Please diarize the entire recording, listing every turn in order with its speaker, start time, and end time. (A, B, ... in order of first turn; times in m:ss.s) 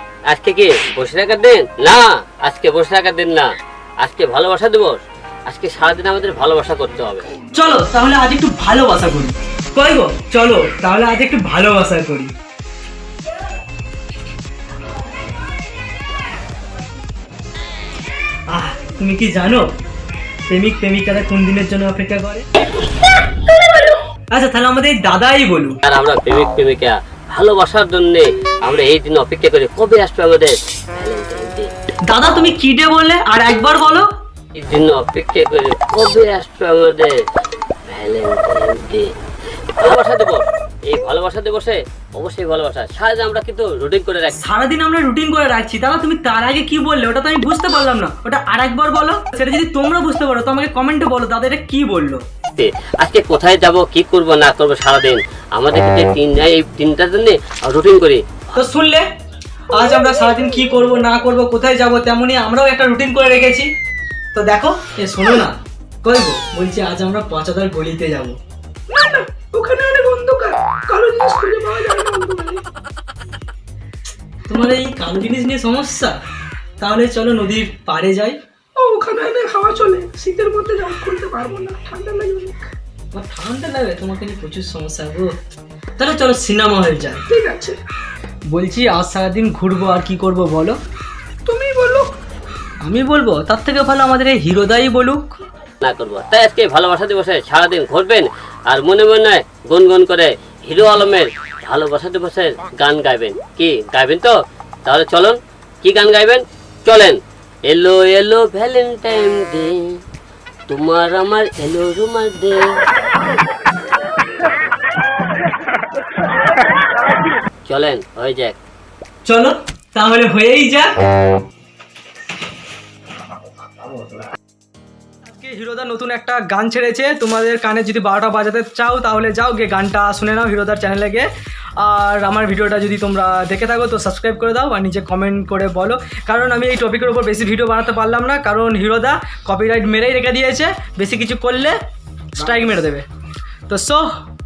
0:00.3-0:03.5 A
0:04.0-0:07.2 A
0:07.5-0:12.3 B
0:18.5-0:19.6 B
0:20.5-0:22.4 B
0:24.3-0:25.8 B
0:25.8-0:31.7 A
0:32.1-0:34.1 B
0:34.6-0:37.1 A
0:37.9-0:39.1 A
0:39.8-0:44.4 A
0:44.3-0:52.2 B
0:52.6-0:58.2 A
0:58.5-0:59.0 B
0:59.7-1:03.7 B
1:04.3-1:08.4 B
1:08.9-1:12.6 C
1:14.5-1:16.1 B
1:16.8-1:18.4 B
1:18.8-1:22.6 C
1:23.1-1:25.3 B
1:26.0-1:27.2 B
1:27.3-1:27.8 C
1:28.5-1:30.8 B
1:31.4-1:32.1 C
1:32.8-1:35.3 B
1:35.8-1:44.3 A
1:44.8-1:50.0 A
1:50.7-1:52.6 A
1:57.6-1:58.6 A
1:59.2-2:01.0 B
2:05.2-2:11.3 B
2:11.8-2:21.8 B
2:22.4-2:23.0 B
2:23.7-2:24.0 B